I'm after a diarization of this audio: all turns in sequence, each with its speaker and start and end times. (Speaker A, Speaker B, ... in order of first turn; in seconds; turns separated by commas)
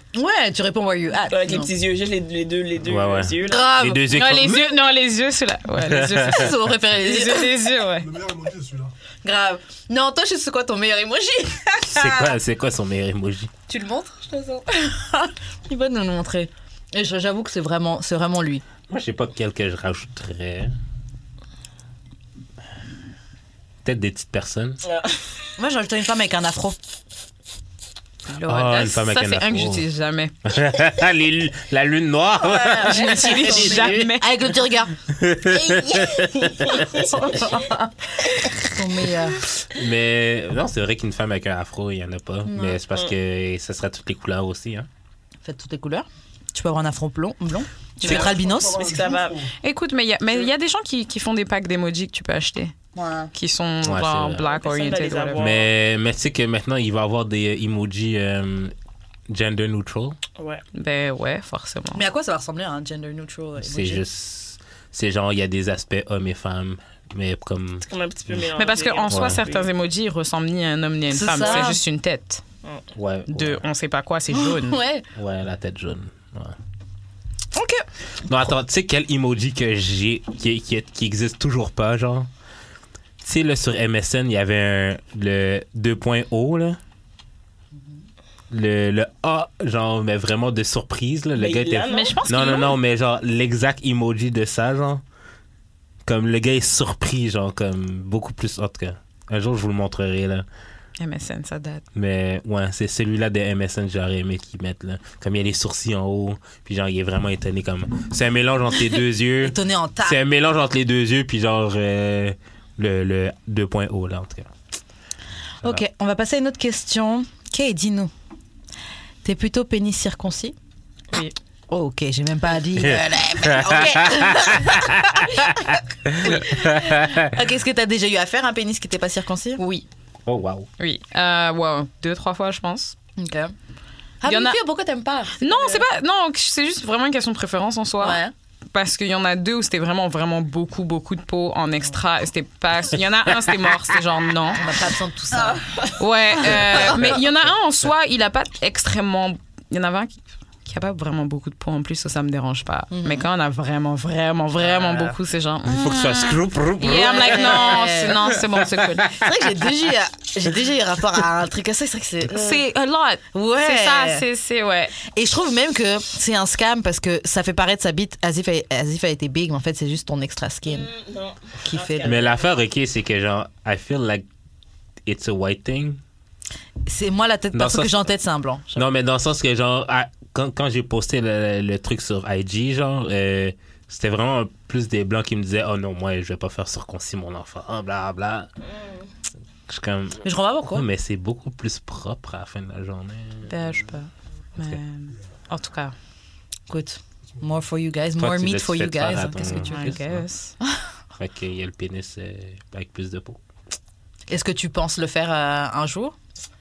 Speaker A: 0.1-1.7, Speaker B: 1.3-3.7, Speaker C: 2.8-4.7, Speaker A: 3.5-4.0, Speaker D: 4.1-8.1, Speaker C: 5.8-6.5, Speaker A: 6.2-7.5, Speaker E: 8.0-8.9, Speaker A: 9.2-12.3, Speaker C: 11.9-13.5, Speaker A: 13.7-18.6, Speaker C: 18.9-20.7, Speaker C: 23.8-24.8, Speaker B: 24.8-25.2, Speaker A: 25.6-26.8, Speaker D: 28.3-30.5, Speaker C: 28.4-29.8, Speaker C: 30.4-34.2, Speaker B: 32.5-33.6, Speaker A: 32.8-34.9, Speaker D: 32.8-34.3, Speaker C: 35.1-37.1, Speaker B: 36.5-37.2, Speaker A: 36.9-38.1, Speaker A: 38.6-39.4, Speaker C: 39.7-44.9, Speaker A: 42.5-42.8, Speaker A: 45.4-48.8, Speaker E: 48.0-49.5, Speaker B: 48.8-49.4, Speaker D: 49.6-52.7, Speaker A: 52.9-53.3, Speaker D: 53.3-55.5, Speaker C: 53.8-54.4, Speaker B: 54.5-55.7, Speaker C: 55.4-58.7, Speaker C: 59.3-60.2, Speaker B: 60.4-60.6, Speaker D: 60.7-62.0, Speaker A: 61.9-64.0, Speaker C: 63.6-68.4, Speaker B: 67.8-69.7, Speaker D: 68.5-72.4, Speaker C: 69.1-69.4, Speaker A: 71.1-71.8, Speaker C: 72.9-73.6, Speaker D: 73.3-74.8, Speaker A: 74.3-75.0, Speaker C: 75.1-76.5, Speaker A: 77.5-77.8, Speaker C: 78.2-82.3, Speaker C: 83.2-86.8, Speaker C: 88.5-95.0, Speaker B: 91.3-92.2, Speaker D: 91.9-92.8, Speaker C: 96.0-100.4, Speaker D: 101.0-101.8, Speaker C: 101.9-114.5, Speaker A: 109.4-110.2, Speaker A: 115.6-118.1, Speaker A: 119.2-120.5, Speaker A: 121.7-129.6, Speaker C: 122.8-127.3, Speaker D: 129.6-129.8, Speaker C: 130.2-130.7, Speaker D: 130.8-132.9, Speaker A: 133.2-133.5, Speaker A: 134.2-135.8, Speaker D: 134.2-134.6, Speaker D: 135.4-144.7, Speaker A: 138.0-138.3, Speaker A: 144.5-145.6, Speaker D: 146.0-150.1, Speaker A: 146.5-147.1, Speaker D: 150.7-159.2, Speaker A: 152.9-153.3, Speaker A: 154.6-155.1, Speaker C: 155.6-159.1, Speaker A: 156.9-158.2, Speaker A: 159.1-162.6, Speaker D: 162.3-164.9, Speaker A: 163.3-164.2, Speaker A: 165.1-170.9, Speaker B: 170.7-172.4, Speaker A: 171.6-172.2, Speaker C: 172.0-174.2, Speaker C: 175.1-176.0, Speaker A: 176.8-178.9, Speaker C: 177.5-178.0, Speaker C: 178.7-188.5, Speaker C: 189.7-190.2, Speaker A: 190.2-190.8, Speaker C: 190.7-193.8, Speaker D: 193.4-195.9, Speaker A: 196.7-199.9, Speaker C: 198.2-200.2, Speaker D: 199.6-200.5, Speaker C: 201.2-203.4, Speaker A: 204.3-206.2